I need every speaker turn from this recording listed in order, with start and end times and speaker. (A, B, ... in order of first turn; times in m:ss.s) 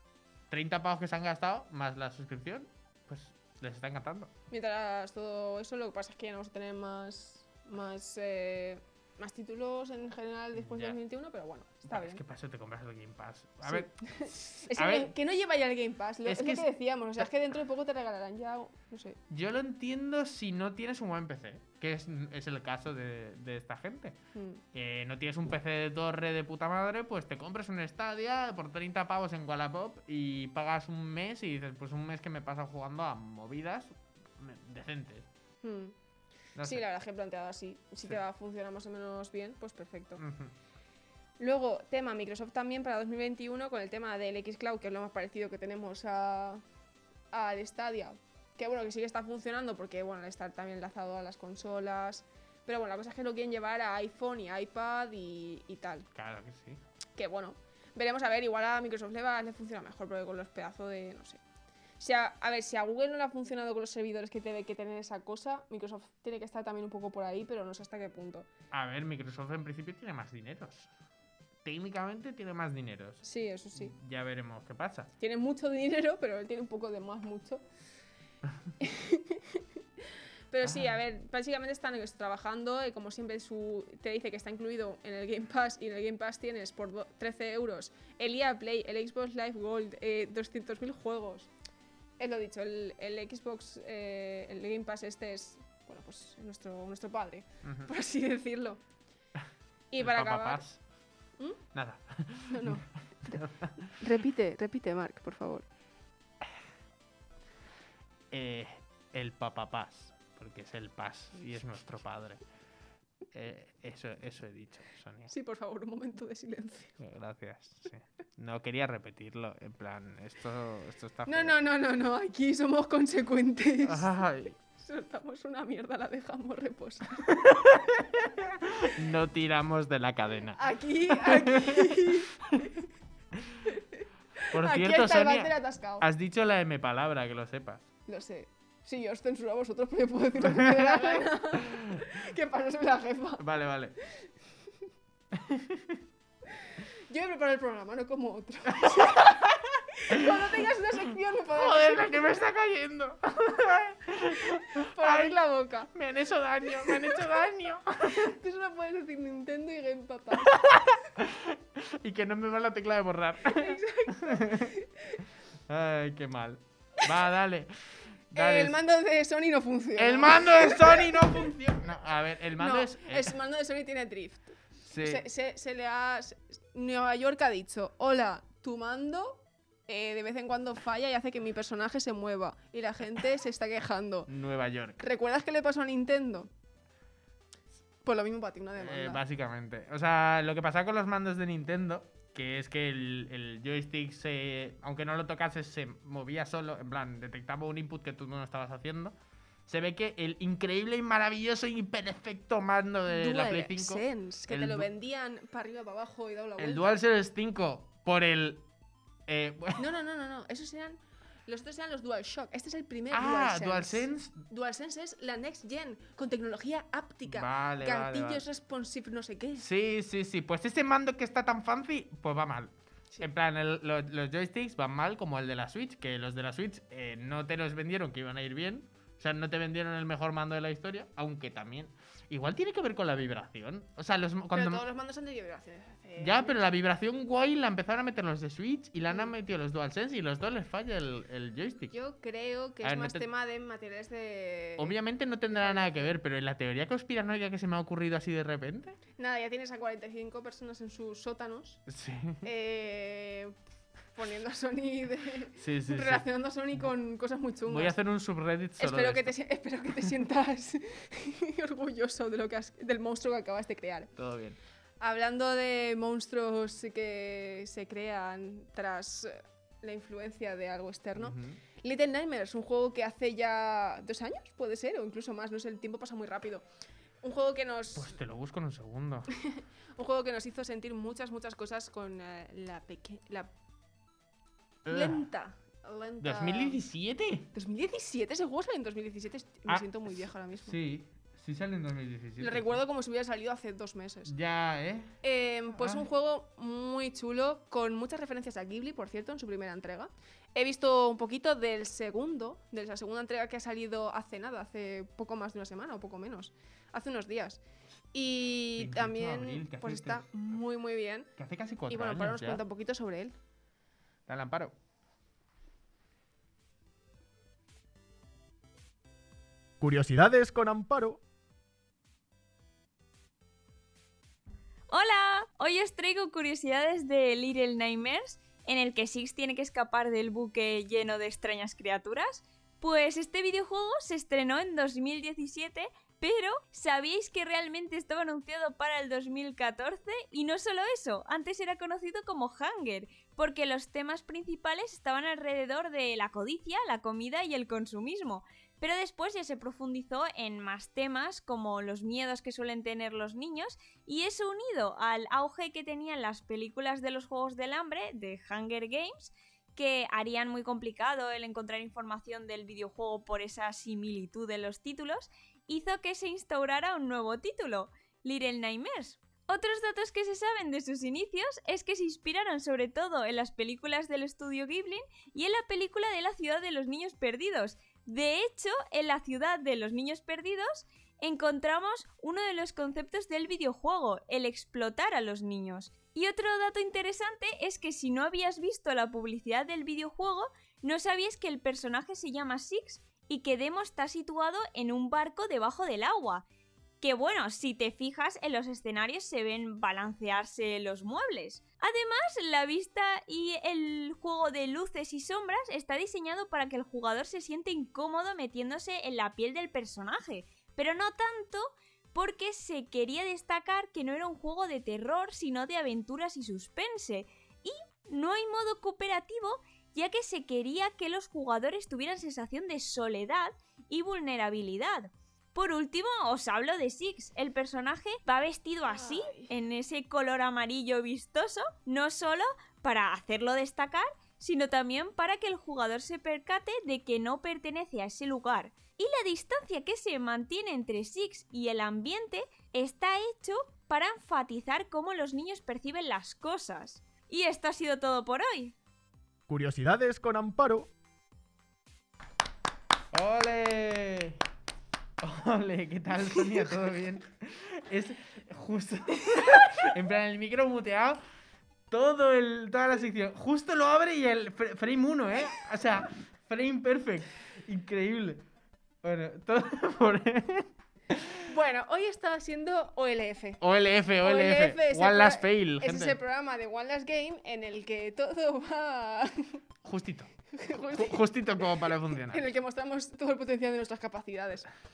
0:00.5-0:04.3 A
0:04.5-0:12.2 B
0:10.6-0:11.0 A
0:11.9-0:15.1 A
0:13.6-0:19.2 B
0:16.3-0:16.7 A
0:19.3-0:24.2 A
0:24.4-0:24.6 B
0:24.7-0:35.3 A
0:35.6-0:36.0 B
0:36.6-0:36.8 A
0:36.6-0:40.2 B
0:40.2-0:40.5 A
0:41.4-0:46.6 B
0:47.3-0:56.1 B
0:56.2-0:56.8 A
0:57.2-1:01.4 B
1:02.0-1:08.5 B
1:08.7-1:10.9 A
1:11.6-1:13.2 A
1:13.2-1:13.9 B
1:13.8-1:15.1 A
1:15.2-1:17.6 B
1:18.8-1:19.6 B
1:20.5-1:31.5 B
1:32.2-1:38.8 B
1:37.6-1:37.9 A
1:39.9-1:40.6 B
1:40.0-1:40.8 A
1:41.7-1:43.8 A
1:42.5-1:45.7 B
1:48.3-1:52.4 A
1:53.3-1:55.3 A
1:55.3-1:57.0 B
1:57.0-2:01.5 A
2:01.3-2:04.1 B
2:03.8-2:04.6 A
2:04.6-2:07.3 B
2:07.3-2:12.2 A
2:10.6-2:12.8 B
2:13.7-2:16.1 B
2:14.5-2:17.9 A
2:18.1-2:23.4 B
2:20.4-2:22.0 A
2:23.4-2:24.0 A
2:25.4-2:26.0 A
2:27.1-2:32.2 B
2:28.8-2:29.4 A
2:30.1-2:30.4 A
2:31.6-2:35.4 A
2:34.4-2:35.9 B
2:35.9-2:38.3 A
2:36.7-2:37.2 B
2:38.0-2:40.8 B
2:40.4-2:44.8 A
2:43.5-2:45.2 B
2:45.7-2:48.8 A
2:48.3-2:51.5 B
2:50.0-2:53.4 A
2:52.6-3:04.3 B
2:54.9-2:55.2 A
3:04.3-3:05.0 A
3:05.0-3:06.5 B
3:08.0-3:09.2 B
3:08.8-3:19.2 A
3:19.7-3:24.9 A
3:23.1-3:27.0 B
3:26.6-3:28.6 A
3:29.3-3:29.8 A
3:29.8-3:39.7 B
3:33.1-3:34.4 A
3:37.3-3:38.4 A
3:39.6-3:54.8 A
3:54.5-3:56.6 B
3:56.2-4:01.9 A
4:01.9-4:05.0 B
4:02.8-4:03.2 A
4:04.8-4:09.0 A
4:05.5-4:06.1 B
4:09.2-4:11.8 B
4:11.9-4:12.5 A
4:12.4-4:13.6 B
4:14.2-4:18.0 B
4:15.6-4:16.3 A
4:17.7-4:19.4 A
4:18.8-4:24.1 B
4:24.2-4:24.6 A
4:25.0-4:36.6 B
4:31.2-4:31.6 A
4:37.2-4:38.2 B
4:38.0-4:39.3 A
4:39.4-4:43.5 B
4:44.8-4:45.2 A
4:44.9-4:46.8 B
4:46.2-4:47.5 A
4:47.5-4:50.8 B
4:49.7-4:52.8 A
4:52.4-4:54.3 B
4:54.3-4:55.2 A
4:55.2-5:07.6 B
4:55.8-4:56.0 A
5:08.1-5:11.3 B
5:08.8-5:10.4 A
5:11.4-5:12.6 A
5:11.9-5:13.4 B
5:14.3-5:14.7 A
5:19.8-5:21.2 C
5:24.9-6:36.4 D
6:37.0-7:28.7 D
7:08.8-7:09.5 B
7:29.5-7:30.9 C
7:33.1-7:34.4 A
7:35.2-7:41.2 A
7:41.9-7:48.4 A
7:49.0-7:51.4 A
7:51.4-7:53.6 B
7:53.6-7:56.2 A
7:54.2-7:59.6 B
7:59.8-8:00.3 A
8:00.5-8:04.7 B
8:00.9-8:02.5 A